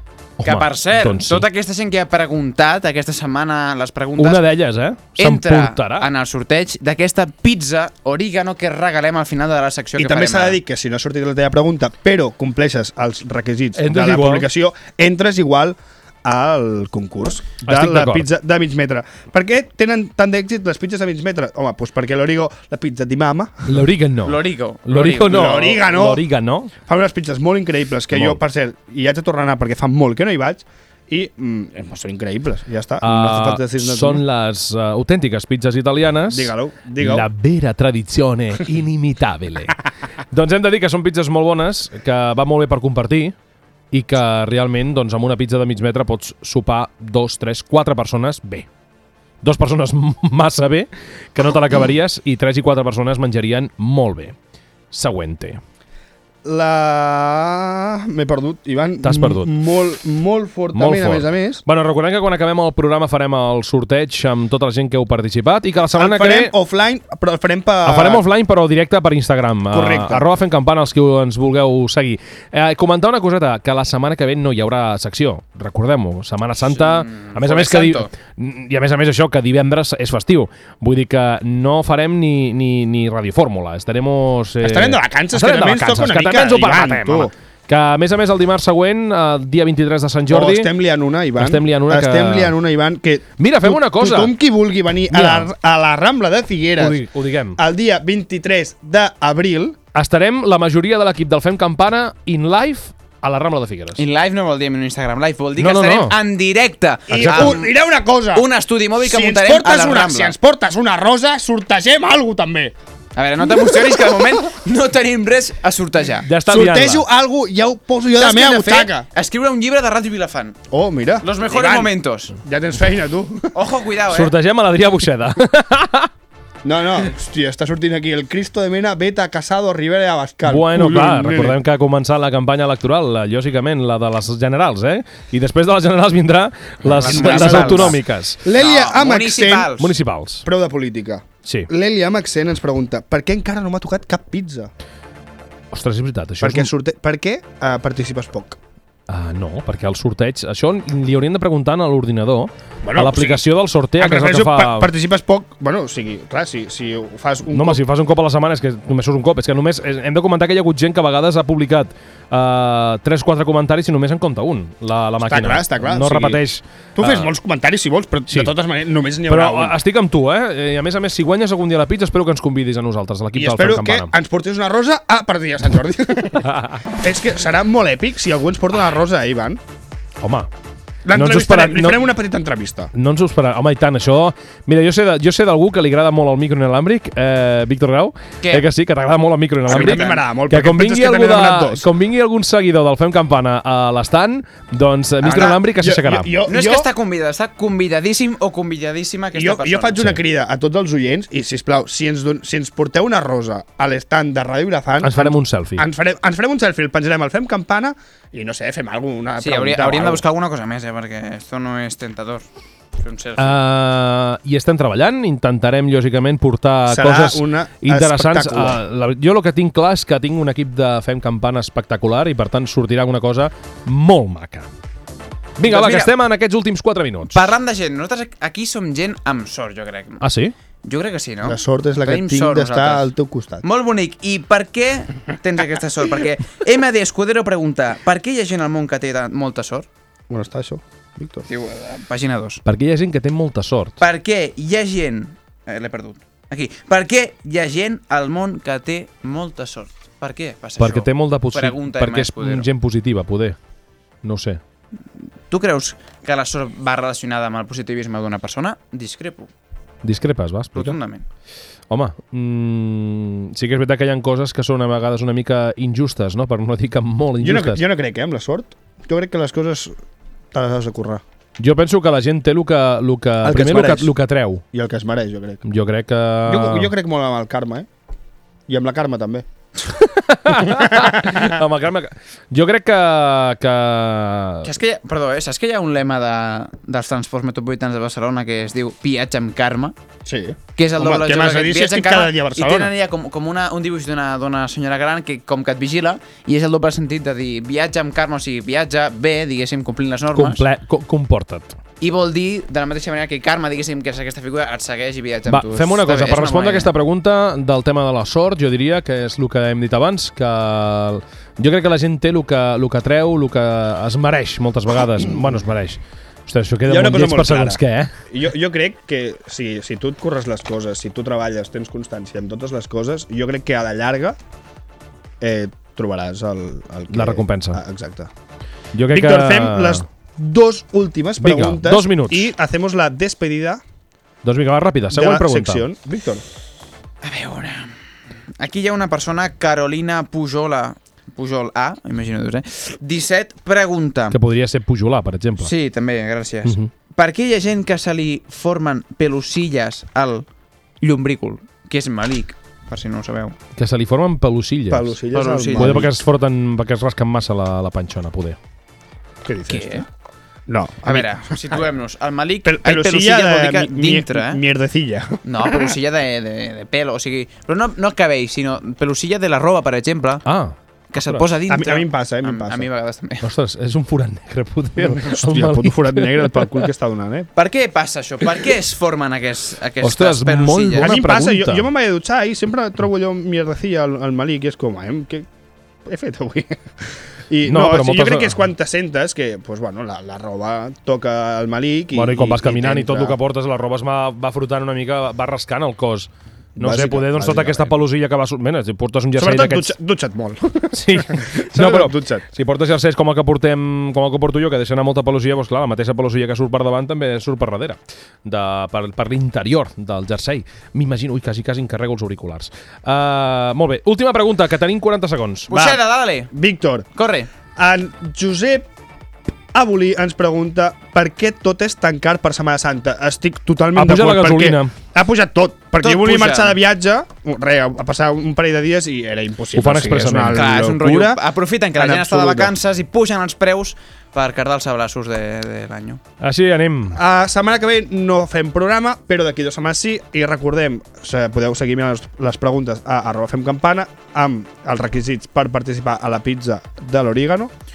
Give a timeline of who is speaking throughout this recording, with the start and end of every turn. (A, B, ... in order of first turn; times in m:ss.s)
0:00.4-0:01.4 A
0:00.4-0:04.4 B
0:04.2-0:06.1 A
0:05.2-0:10.6 B
0:10.0-0:23.8 C
0:13.8-0:14.5 A
0:17.6-0:18.3 A
0:23.7-0:26.7 A
0:24.2-0:25.6 B
0:25.2-0:26.2 C
0:26.8-0:34.2 C
0:28.1-0:28.4 A
0:33.0-0:39.8 A
0:36.3-0:37.3 C
0:40.3-0:43.4 A
0:43.9-0:48.7 A
0:49.4-0:54.4 A
0:54.9-0:55.6 A
0:56.4-1:01.6 C
0:59.0-0:59.5 A
1:00.7-1:06.5 A
1:05.9-1:08.2 C
1:07.8-1:30.7 A
1:09.7-1:10.3 C
1:16.8-1:18.1 B
1:24.6-1:27.3 C
1:30.3-1:37.0 C
1:31.4-1:32.6 A
1:33.4-1:34.3 A
1:35.1-1:35.5 A
1:36.8-1:37.6 A
1:37.6-1:39.8 C
1:39.9-1:44.0 A
1:44.0-1:47.7 B
1:45.6-1:46.2 A
1:47.1-1:47.6 A
1:47.1-1:48.5 C
1:48.3-1:50.3 B
1:49.0-1:52.7 C
1:53.2-1:56.3 B
1:53.6-1:54.3 C
1:56.2-1:57.0 A
1:56.5-1:59.1 C
1:58.2-2:00.6 B
2:00.7-2:03.6 C
2:01.2-2:02.3 B
2:03.5-2:04.3 B
2:04.1-2:06.1 A
2:06.6-2:11.6 C
2:10.4-2:18.4 A
2:16.9-2:19.9 B
2:17.0-2:19.8 C
2:19.8-2:20.5 A
2:20.4-2:24.7 C
2:25.7-2:26.7 A
2:26.4-2:28.6 C
2:29.1-2:34.9 A
2:32.8-2:33.4 C
2:34.0-2:37.8 C
2:37.5-2:47.3 A
2:45.2-2:46.4 C
2:47.0-2:49.8 C
2:49.3-2:54.1 A
2:53.3-2:59.6 C
2:56.5-2:56.8 A
3:00.2-3:00.5 A
3:01.0-3:02.9 C
3:01.1-3:02.0 A
3:02.9-3:16.4 A
3:09.7-3:10.2 B
3:09.7-3:11.9 C
3:15.2-3:16.9 C
3:15.2-3:15.6 B
3:16.5-3:20.1 B
3:19.3-3:30.2 C
3:25.0-3:25.9 A
3:29.4-3:32.5 B
3:33.0-3:33.6 B
3:33.4-3:44.7 A
3:36.9-3:38.8 C
3:45.6-3:47.5 A
3:45.6-3:46.1 B
3:47.3-3:50.2 B
3:50.2-3:50.5 A
3:50.8-3:53.1 B
3:51.4-3:53.6 C
3:53.6-3:59.9 B
4:00.3-4:01.5 C
4:01.5-4:02.6 B
4:02.6-4:04.0 A
4:04.0-4:12.7 B
4:10.8-4:13.6 A
4:14.2-4:14.6 A
4:15.5-4:19.5 B
4:20.0-4:21.0 A
4:20.8-4:21.2 B
4:21.9-4:27.8 A
4:27.4-4:30.0 C
4:30.5-4:31.2 C
4:31.6-4:34.6 A
4:33.4-4:34.1 C
4:34.7-4:35.6 C
4:35.6-4:36.9 A
4:36.5-4:37.9 C
4:38.7-4:39.4 C
4:39.9-4:44.7 A
4:40.6-4:41.6 C
4:44.6-4:49.9 B
4:50.2-4:52.9 C
4:50.8-5:00.6 B
5:00.4-5:01.8 A
5:02.0-5:06.9 B
5:05.5-5:18.2 A
5:16.9-5:24.4 C
5:25.4-5:28.3 C
5:27.1-5:27.8 A
5:28.9-5:30.0 A
5:29.1-5:33.8 C
5:31.4-5:32.5 A
5:34.4-5:35.8 A
5:35.1-5:36.4 C
5:37.2-5:37.9 B
5:38.6-5:44.4 B
5:44.3-5:45.7 A
5:45.6-5:50.5 B
5:46.6-5:46.9 A
5:51.0-5:53.6 B
5:53.8-5:55.2 A
5:54.9-5:56.1 C
5:55.3-5:56.1 B
5:55.8-5:58.6 A
5:59.4-6:00.0 C
5:59.7-6:00.0 B
6:00.7-6:01.8 C
6:01.0-6:04.6 B
6:02.6-6:05.9 C
6:05.4-6:10.4 B
6:10.4-6:11.4 A
6:11.1-6:13.4 B
6:11.7-6:12.9 C
6:13.4-6:16.9 A
6:15.0-6:17.5 C
6:17.6-6:21.1 B
6:20.0-6:21.9 A
6:21.0-6:25.5 C
6:26.0-6:33.4 C
6:27.7-6:28.6 A
6:32.1-6:39.9 A
6:36.8-6:37.9 C
6:39.4-6:42.4 C
6:40.9-6:55.7 A
6:55.7-6:56.5 B
6:55.7-6:56.0 C
6:56.5-6:57.1 C
6:57.2-6:57.5 B
6:57.8-6:58.9 C
6:59.7-7:11.4 C
7:04.0-7:04.9 A
7:06.0-7:06.8 B
7:09.7-7:10.7 A
7:10.4-7:16.2 B
7:12.0-7:12.8 C
7:16.4-7:17.2 A
7:17.2-7:27.7 C